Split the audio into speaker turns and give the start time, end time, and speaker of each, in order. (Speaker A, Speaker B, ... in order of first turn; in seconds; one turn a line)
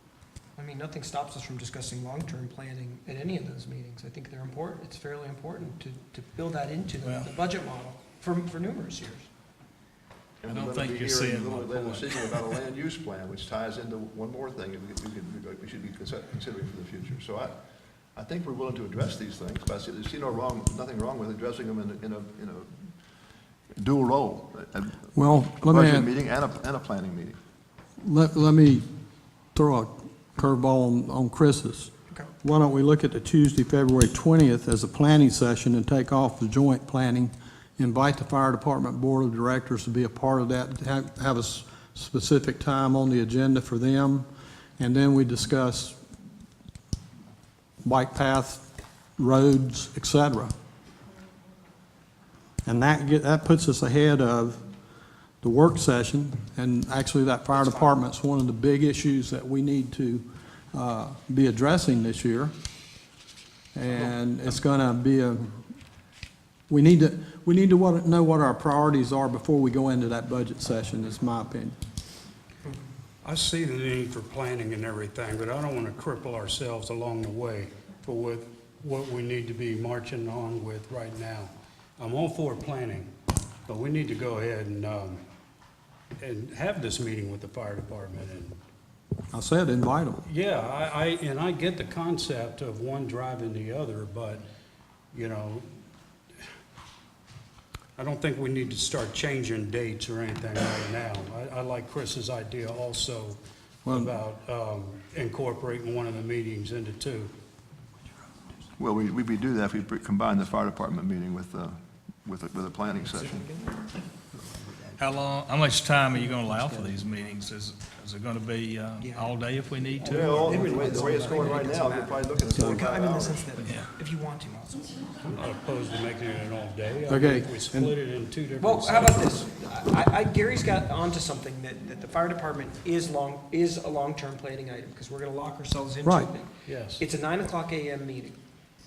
Speaker A: 0.6-9.3
Speaker B: 10.4-17.5
Speaker C: 10.4-12.5
Speaker B: 18.1-22.9
Speaker B: 23.8-27.4
Speaker D: 25.1-26.1
Speaker D: 28.0-28.8
Speaker D: 29.5-31.9
Speaker D: 32.4-44.3
Speaker D: 44.8-46.0
Speaker D: 47.8-48.6
Speaker D: 49.2-50.5
Speaker D: 52.6-54.6
Speaker D: 55.4-62.5
Speaker A: 57.5-57.9
Speaker D: 63.7-65.6
Speaker D: 66.7-71.8
Speaker E: 73.2-83.1
Speaker E: 83.7-85.2
Speaker E: 86.2-88.6
Speaker D: 89.3-90.2
Speaker E: 90.2-94.4
Speaker E: 95.1-95.7
Speaker E: 98.0-107.3
Speaker D: 103.8-104.1
Speaker B: 108.8-113.5
Speaker A: 113.0-114.9
Speaker C: 115.0-120.7
Speaker A: 116.4-116.8
Speaker A: 119.0-119.3
Speaker A: 120.0-124.9
Speaker B: 120.0-123.5
Speaker C: 123.6-123.9
Speaker E: 125.2-129.4
Speaker D: 127.1-127.9
Speaker A: 128.6-138.4
Speaker D: 136.0-136.3
Speaker E: 136.7-137.0